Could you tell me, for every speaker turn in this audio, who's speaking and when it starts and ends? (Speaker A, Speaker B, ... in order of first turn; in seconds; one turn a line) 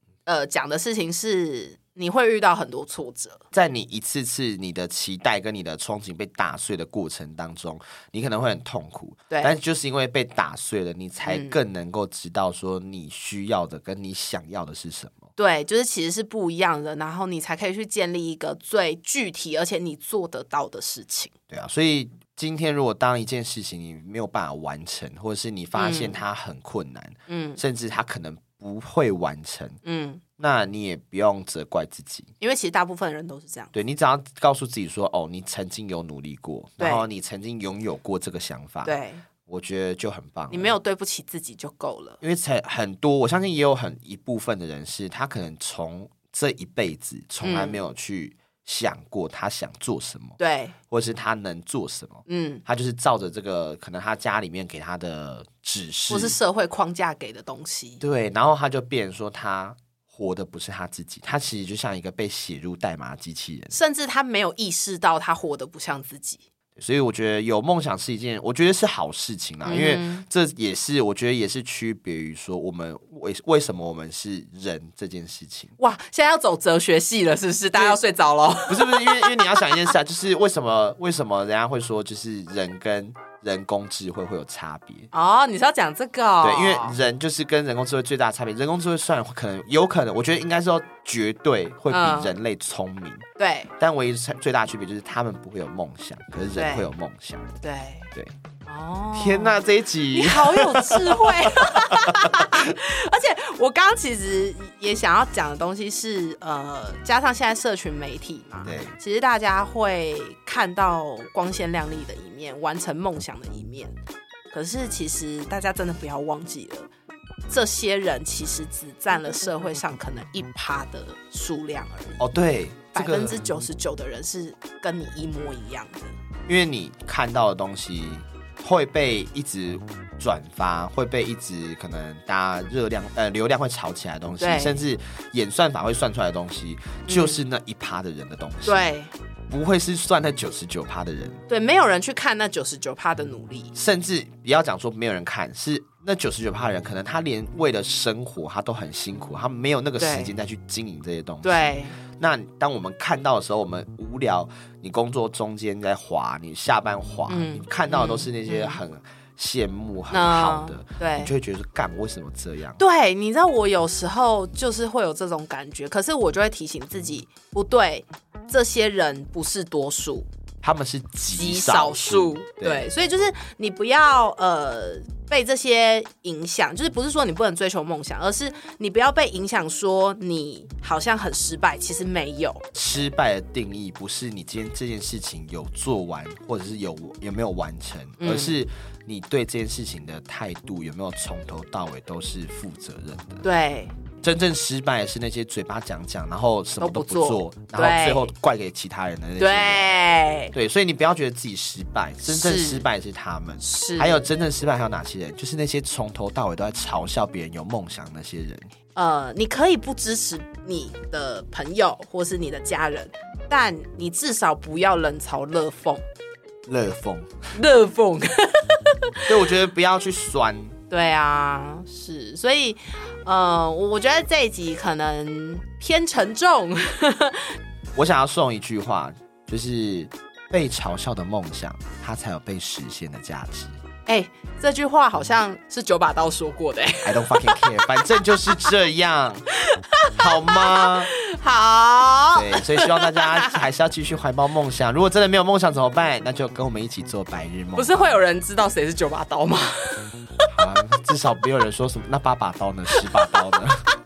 Speaker A: 0.2-3.4
Speaker B: 3.5-15.3
Speaker A: 11.2-11.6
Speaker A: 15.4-21.3
Speaker B: 21.5-29.8
Speaker A: 25.8-26.2
Speaker A: 27.3-27.6
Speaker A: 29.8-30.2
Speaker B: 30.4-32.3
Speaker A: 32.4-33.7
Speaker B: 33.7-38.9
Speaker A: 36.8-37.0
Speaker A: 38.8-39.2
Speaker B: 39.5-40.7
Speaker A: 40.5-42.2
Speaker B: 42.2-50.4
Speaker A: 47.4-47.8
Speaker A: 50.4-50.8
Speaker B: 50.9-56.4
Speaker A: 52.3-52.6
Speaker A: 56.1-58.0
Speaker B: 58.0-63.8
Speaker A: 63.7-66.4
Speaker B: 66.8-75.7
Speaker A: 69.6-70.2
Speaker A: 75.8-79.9
Speaker B: 78.7-85.1
Speaker A: 85.1-87.0
Speaker B: 86.4-93.2
Speaker A: 91.9-92.3
Speaker A: 93.4-93.7
Speaker B: 93.8-97.5
Speaker A: 96.5-96.9
Speaker A: 97.6-98.1
Speaker A: 98.7-99.6
Speaker B: 99.1-102.7
Speaker A: 100.1-113.9
Speaker B: 108.6-109.0
Speaker A: 114.5-116.9
Speaker A: 117.5-122.2
Speaker B: 122.2-123.4
Speaker A: 122.9-126.1
Speaker B: 126.5-138.9
Speaker A: 134.4-134.8
Speaker A: 137.1-137.4
Speaker A: 138.7-139.1
Speaker B: 139.5-141.4
Speaker A: 141.5-143.7
Speaker B: 143.7-162.8
Speaker A: 150.0-150.3
Speaker A: 151.4-152.0
Speaker A: 157.3-158.8
Speaker A: 160.1-161.3
Speaker A: 162.8-170.3
Speaker B: 170.6-172.9
Speaker A: 171.3-182.7
Speaker B: 182.7-193.4
Speaker A: 188.2-188.5
Speaker A: 193.4-193.9
Speaker B: 194.2-199.9
Speaker A: 196.8-198.3
Speaker A: 199.4-200.5
Speaker B: 200.5-208.7
Speaker A: 202.2-202.8
Speaker A: 203.6-204.2
Speaker A: 208.9-216.0
Speaker B: 216.7-217.3
Speaker A: 217.5-219.4
Speaker B: 219.2-220.8
Speaker A: 220.9-227.6
Speaker B: 227.9-233.8
Speaker A: 234.1-238.3
Speaker B: 237.0-239.4
Speaker A: 239.6-243.6
Speaker B: 240.2-241.1
Speaker B: 242.3-247.9
Speaker A: 247.8-250.5
Speaker B: 250.5-253.9
Speaker A: 252.9-253.6